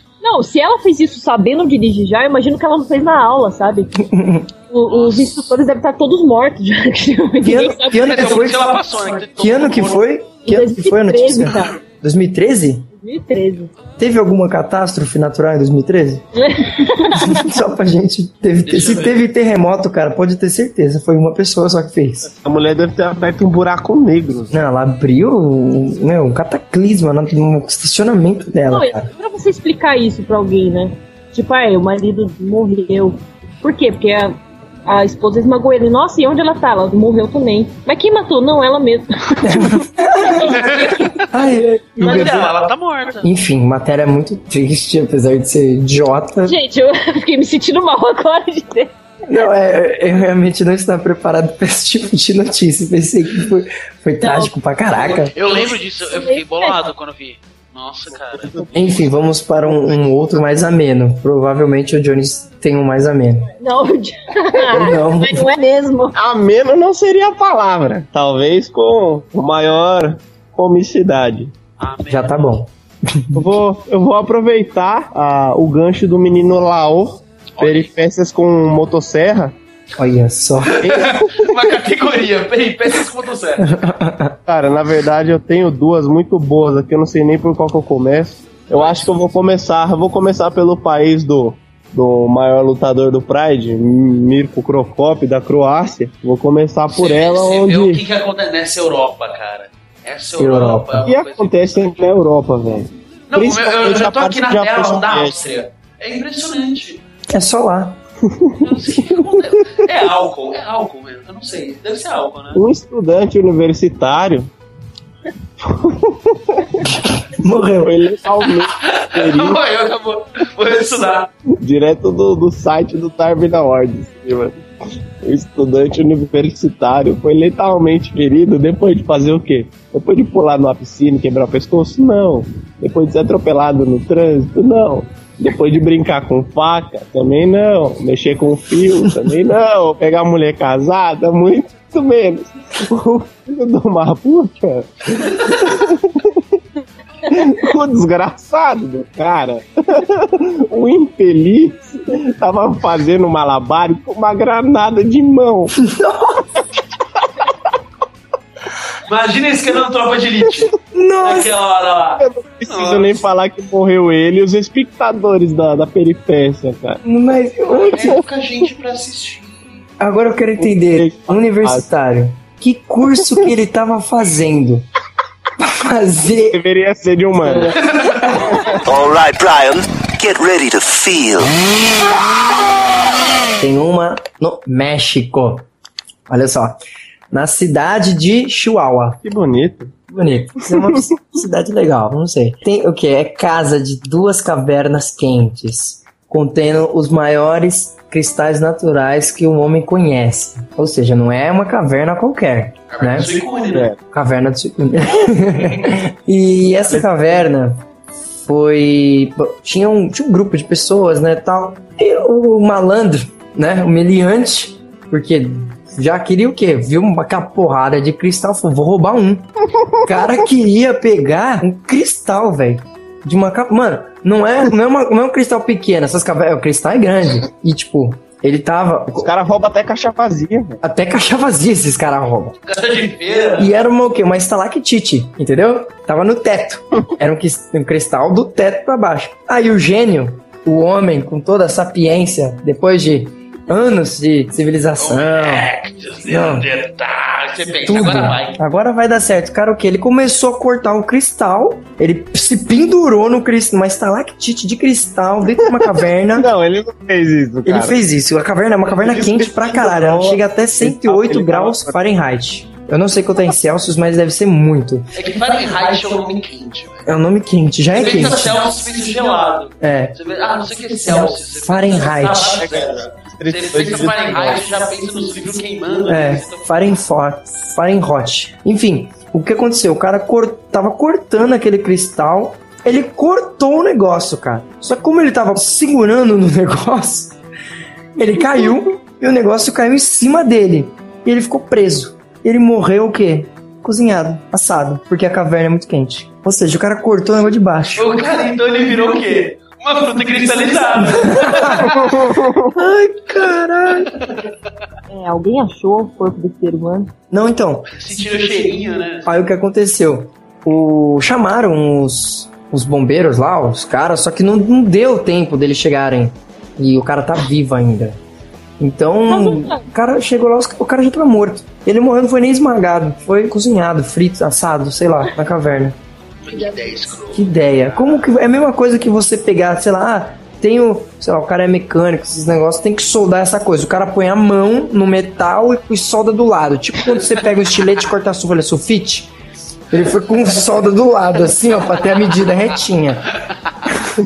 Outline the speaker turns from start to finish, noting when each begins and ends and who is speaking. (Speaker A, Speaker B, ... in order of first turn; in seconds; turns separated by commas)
Speaker A: 0.2-3.9, Speaker B: 4.0-4.5, Speaker A: 4.7-8.1, Speaker C: 4.9-5.5, Speaker B: 7.4-12.9, Speaker C: 7.9-10.1, Speaker A: 10.4-11.8, Speaker A: 12.9-13.7, Speaker B: 14.0-16.3, Speaker A: 16.3-17.5, Speaker B: 17.1-22.3, Speaker C: 18.6-19.2, Speaker D: 22.4-24.6, Speaker B: 24.5-29.1, Speaker A: 28.7-41.2, Speaker B: 39.4-40.6, Speaker C: 40.4-41.2, Speaker B: 41.3-42.6, Speaker C: 42.0-43.3, Speaker B: 43.2-46.6, Speaker A: 46.4-48.9, Speaker B: 49.3-55.3, Speaker A: 54.2-54.5, Speaker C: 55.0-58.7, Speaker A: 56.1-56.8, Speaker D: 58.3-59.0, Speaker B: 58.7-63.5, Speaker D: 59.7-60.0, Speaker A: 63.6-66.2, Speaker B: 64.7-65.5, Speaker D: 66.2-71.5, Speaker C: 71.8-72.6, Speaker B: 72.1-73.4, Speaker D: 73.3-79.5, Speaker C: 77.6-77.9, Speaker B: 80.0-80.8, Speaker C: 80.8-83.8, Speaker D: 80.8-81.6, Speaker B: 83.6-84.4, Speaker D: 84.5-98.0, Speaker C: 88.7-89.1, Speaker C: 96.9-102.0, Speaker B: 100.4-101.1, Speaker D: 101.1-105.4, Speaker C: 103.3-107.0, Speaker B: 107.3-108.0, Speaker C: 108.6-112.6, Speaker D: 112.5-114.5, Speaker D: 115.6-116.9, Speaker B: 117.3-118.0, Speaker D: 117.6-119.6, Speaker C: 118.8-121.3, Speaker D: 121.6-124.6, Speaker D: 125.2-146.4, Speaker D: 147.3-155.8, Speaker B: 155.8-156.5, Speaker C: 159.1-163.2, Speaker B: 160.9-161.5, Speaker D: 162.2-167.0, Speaker B: 167.0-168.2, Speaker C: 167.7-169.8, Speaker B: 170.0-174.9, Speaker D: 170.6-171.9, Speaker B: 175.6-176.6, Speaker D: 176.5-178.8, Speaker C: 177.9-178.7, Speaker E: 178.9-181.5, Speaker B: 183.6-185.7, Speaker B: 186.3-186.8, Speaker B: 187.3-189.2, Speaker D: 189.2-190.1, Speaker B: 190.1-203.4, Speaker D: 190.6-191.1, Speaker C: 202.9-203.9, Speaker D: 203.7-204.0, Speaker B: 204.1-207.8, Speaker B: 208.4-219.5, Speaker B: 220.0-229.3, Speaker D: 229.2-230.8, Speaker B: 230.8-232.6, Speaker C: 232.7-233.7, Speaker B: 233.6-245.7, Speaker C: 245.0-248.6, Speaker B: 246.2-246.7, Speaker B: 247.9-256.5, Speaker D: 256.4-258.0, Speaker B: 257.7-265.1, Speaker D: 258.9-262.0, Speaker C: 265.1-267.1, Speaker B: 267.1-268.9, Speaker C: 267.9-276.7, Speaker B: 269.8-270.2, Speaker B: 270.9-272.7, Speaker D: 272.6-274.6, Speaker B: 276.1-287.4, Speaker B: 288.2-298.2, Speaker C: 298.0-302.1, Speaker B: 300.9-302.0, Speaker D: 301.9-302.7, Speaker B: 302.7-304.1, Speaker C: 304.1-304.5, Speaker A: 305.1-307.1, Speaker B: 307.3-307.9, Speaker C: 307.9-309.3, Speaker B: 309.2-318.2, Speaker B: 318.8-326.0, Speaker A: 319.3-319.8, Speaker C: 326.4-328.3, Speaker A: 326.5-327.0, Speaker B: 327.3-339.3, Speaker B: 339.9-343.3, Speaker C: 343.5-343.8